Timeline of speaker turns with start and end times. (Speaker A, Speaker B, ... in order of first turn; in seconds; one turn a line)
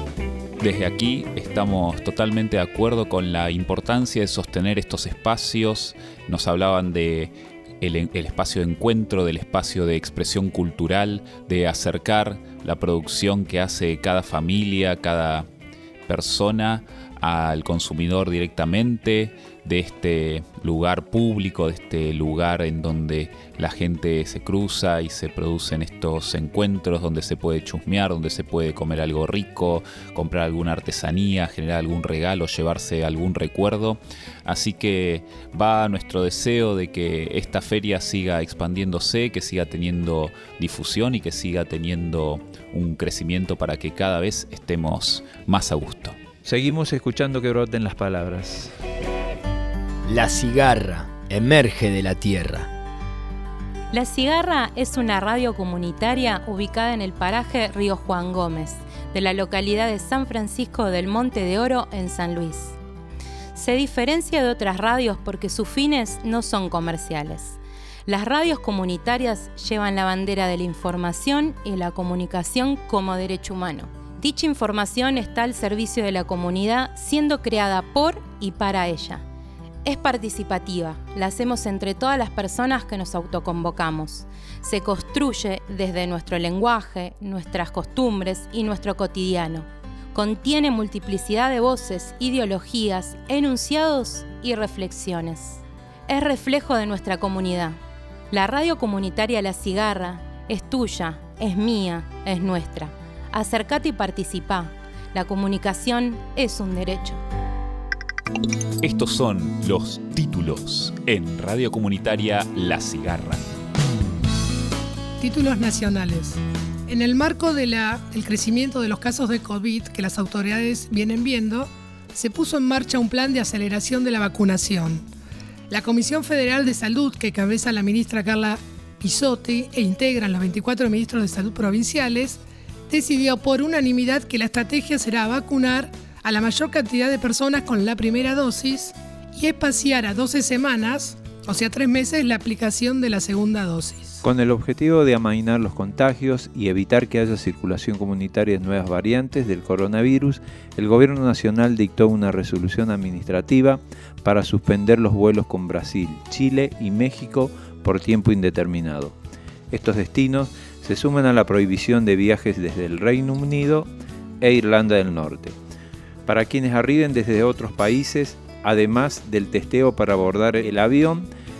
Speaker A: 0.6-15.5
Speaker A: 16.1-46.2
Speaker B: 46.4-48.7
Speaker C: 50.1-52.7
Speaker D: 53.9-62.8
Speaker D: 63.5-79.2
Speaker D: 79.8-97.8
Speaker D: 98.3-107.2
Speaker A: 108.8-113.4
Speaker E: 115.2-125.0
Speaker E: 125.7-144.2
Speaker B: 144.2-159.1
Speaker B: 159.7-163.9
Speaker B: 164.4-165.5
Speaker B: 166.2-171.3